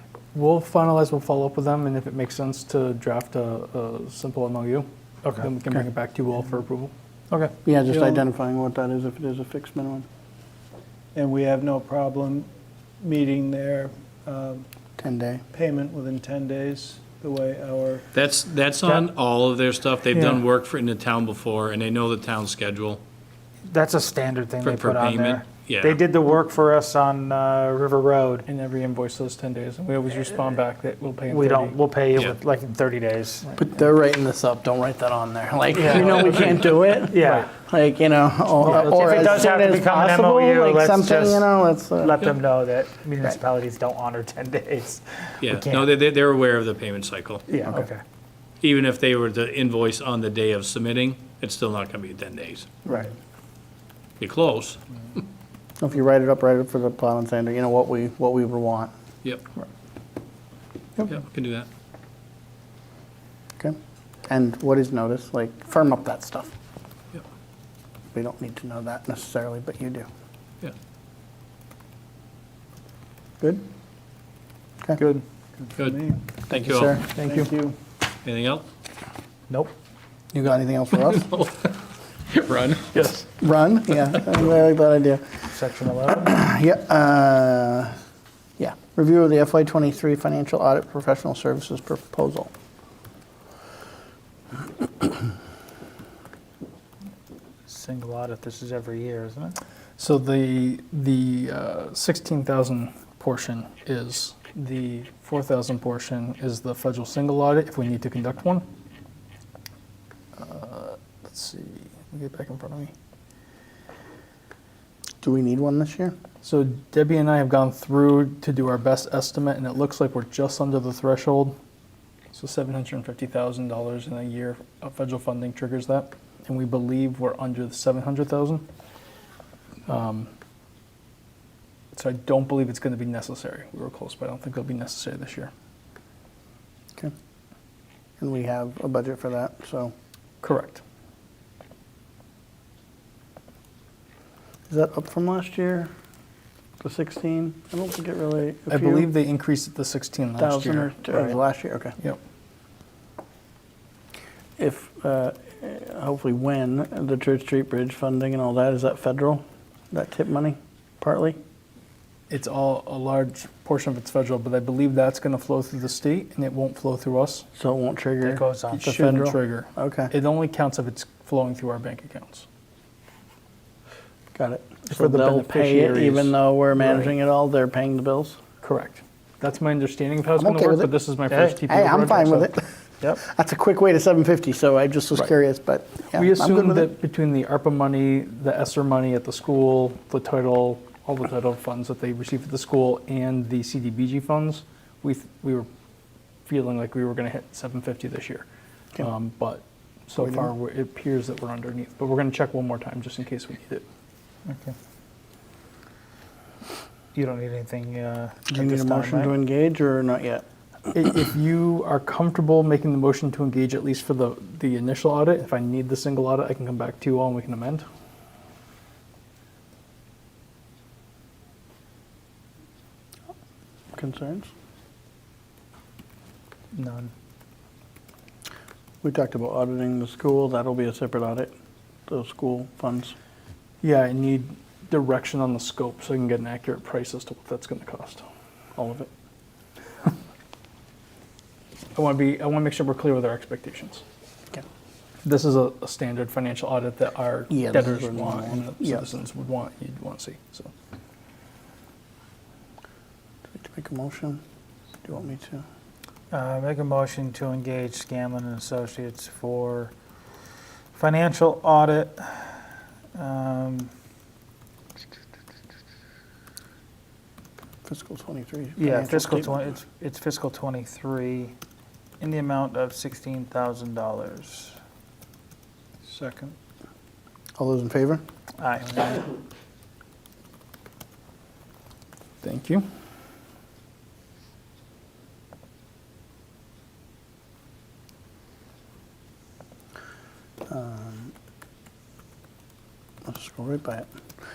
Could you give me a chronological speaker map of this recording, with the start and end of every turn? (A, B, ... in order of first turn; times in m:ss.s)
0:00.3-0:04.8 A
0:05.4-0:06.9 A
0:07.3-0:07.9 B
0:07.6-0:10.0 C
0:11.1-0:14.6 D
0:15.0-0:15.4 C
0:15.5-0:18.0 D
0:18.1-0:23.0 E
0:20.1-0:20.4 B
0:23.7-0:28.4 B
0:24.6-0:26.0 E
0:28.4-0:31.8 A
0:31.3-0:33.5 B
0:33.6-0:42.2 C
0:35.8-0:37.5 B
0:37.2-0:37.5 A
0:38.6-0:39.2 A
0:38.6-0:41.5 B
0:42.0-0:45.9 B
0:45.4-0:47.5 E
0:47.5-0:48.0 B
0:48.6-0:52.8 E
0:54.2-0:54.8 E
0:55.8-0:58.9 C
1:01.1-1:01.7 E
1:04.3-1:06.5 C
1:08.1-1:10.1 C
1:15.0-1:16.2 B
1:16.5-1:17.5 C
1:16.5-1:17.0 E
1:17.2-1:17.5 A
1:18.2-1:18.7 E
1:20.3-1:21.5 C
1:22.3-1:23.0 E
1:22.9-1:23.2 A
1:23.4-1:25.5 C
1:25.5-1:26.3 B
1:26.1-1:28.0 C
1:28.6-1:32.5 C
1:37.7-1:39.6 B
1:40.0-1:48.7 A
1:50.4-1:52.9 A
1:55.2-1:56.1 C
1:56.4-2:01.6 A
2:02.3-2:08.6 A
2:09.9-2:10.3 A
2:11.9-2:15.5 A
2:18.2-2:19.9 C
2:20.4-2:20.8 A
2:24.7-2:25.9 C
2:26.8-2:29.1 C
2:28.7-2:31.4 A
2:30.4-2:31.9 C
2:34.6-2:41.4 C
2:42.3-2:47.4 A
2:47.6-2:50.1 C
2:48.2-2:48.9 B
2:48.7-2:52.4 A
2:54.3-2:58.4 C
2:54.8-2:57.1 A
2:58.6-3:02.5 A
3:00.4-3:00.9 C
3:01.3-3:01.6 B
3:01.6-3:06.9 C
3:06.1-3:15.7 A
3:16.4-3:18.4 A
3:19.0-3:23.8 A
3:20.2-3:20.5 C
3:24.5-3:24.7 B
3:27.1-3:29.3 B
3:28.5-3:30.4 C
3:30.9-3:37.8 A
3:43.9-3:44.5 C
3:46.7-3:47.1 B
3:49.0-3:51.5 C
3:52.1-3:53.1 C
3:53.8-3:58.2 A
3:58.8-3:59.1 C
4:01.9-4:04.0 A
4:05.2-4:10.7 A
4:07.5-4:09.0 C
4:13.5-4:14.4 C
4:15.0-4:15.6 C
4:16.3-4:19.9 B
4:20.9-4:22.6 B
4:23.1-4:23.9 B
4:27.8-4:29.6 C
4:28.8-4:31.5 B
4:32.2-4:34.8 B
4:36.1-4:36.5 B
4:37.6-4:38.2 C
4:38.6-4:39.3 B
4:42.4-4:42.8 A
4:50.7-4:51.3 C
4:53.2-4:54.1 C